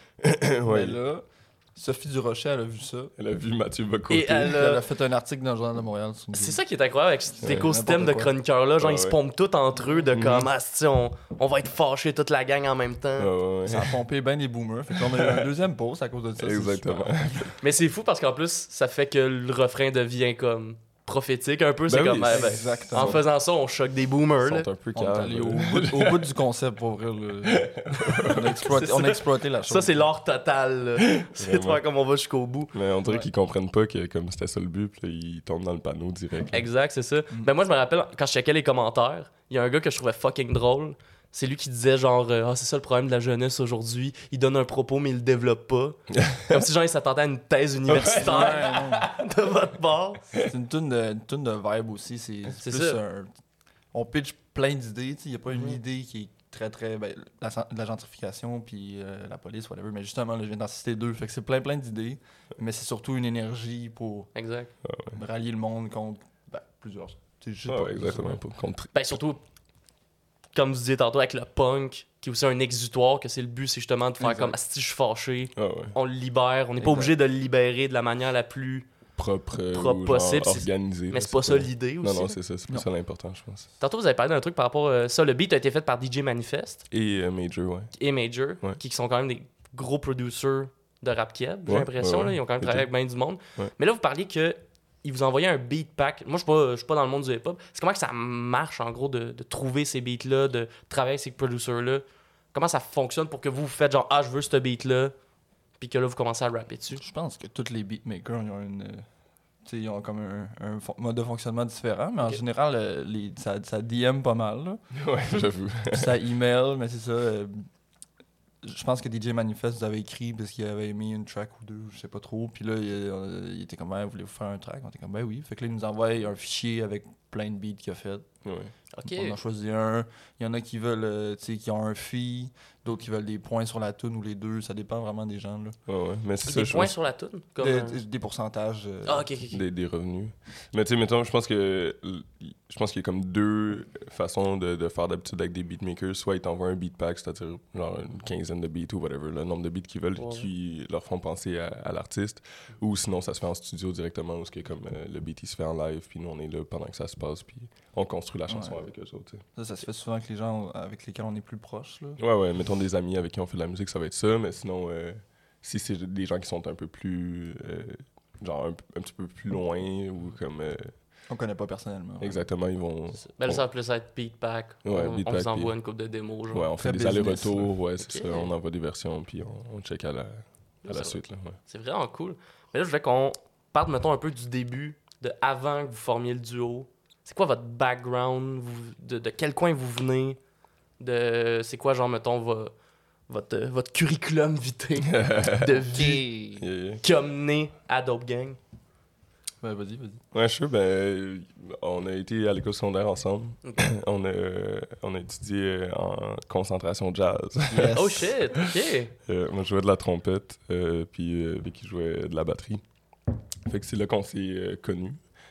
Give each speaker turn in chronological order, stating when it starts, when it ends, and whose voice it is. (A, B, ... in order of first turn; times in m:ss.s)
0:00.2-0:01.0 A
0:00.7-0:03.1 B
0:03.2-0:04.6 A
0:04.1-0:04.8 C
0:04.5-0:06.6 B
0:06.3-0:13.3 C
0:07.4-0:07.7 A
0:07.4-0:08.3 B
0:08.8-0:09.2 A
0:10.1-0:10.5 A
0:13.2-0:14.0 A
0:13.7-0:17.5 B
0:15.0-0:15.5 A
0:16.4-0:17.6 A
0:17.6-0:24.7 C
0:21.9-0:23.2 A
0:22.3-0:23.2 B
0:24.4-0:26.3 A
0:24.9-0:30.1 B
0:27.4-0:28.7 A
0:28.7-0:32.7 C
0:31.0-0:31.8 A
0:32.7-0:36.7 A
0:36.5-0:50.3 C
0:46.1-0:46.6 A
0:47.9-0:48.9 A
0:48.0-0:49.0 B
0:50.4-0:53.3 B
0:52.6-0:53.0 C
0:53.9-1:04.3 B
1:04.4-1:04.7 C
1:04.8-1:05.2 A
1:05.1-1:08.4 B
1:07.7-1:09.2 A
1:08.9-1:09.4 C
1:10.5-1:18.9 C
1:14.2-1:14.6 B
1:15.6-1:16.0 A
1:16.8-1:17.1 B
1:19.2-1:23.7 A
1:19.7-1:22.4 C
1:23.8-1:26.8 C
1:26.9-1:27.9 A
1:28.0-1:45.1 C
1:31.7-1:32.9 A
1:45.8-1:47.0 C
1:47.0-1:49.1 B
1:49.6-1:54.8 B
1:54.9-1:56.2 A
1:55.9-1:57.6 B
1:58.6-2:08.3 B
2:08.4-2:08.7 A
2:08.9-2:09.4 C
2:09.0-2:15.8 B
2:15.9-2:17.0 A
2:16.4-2:18.0 C
2:17.6-2:19.3 B
2:19.1-2:19.6 C
2:19.5-2:39.4 A
2:30.2-2:30.5 C
2:38.5-2:38.8 B
2:39.6-2:42.2 B
2:42.2-2:50.9 A
2:51.3-2:52.5 B
2:52.2-2:53.6 A
2:53.3-2:56.7 C
2:54.8-2:55.7 A
2:56.5-3:01.6 A
2:56.8-2:57.7 B
2:58.0-2:58.5 C
3:00.8-3:10.4 C
3:11.0-3:12.7 C
3:13.3-3:16.2 C
3:15.0-3:16.1 A
3:15.9-3:16.7 B
3:16.6-3:17.0 A
3:17.0-3:18.6 C
3:19.6-3:20.2 B
3:20.3-3:28.5 A
3:27.7-3:28.3 B
3:27.9-3:29.1 C
3:29.3-3:32.8 A
3:33.7-3:35.2 A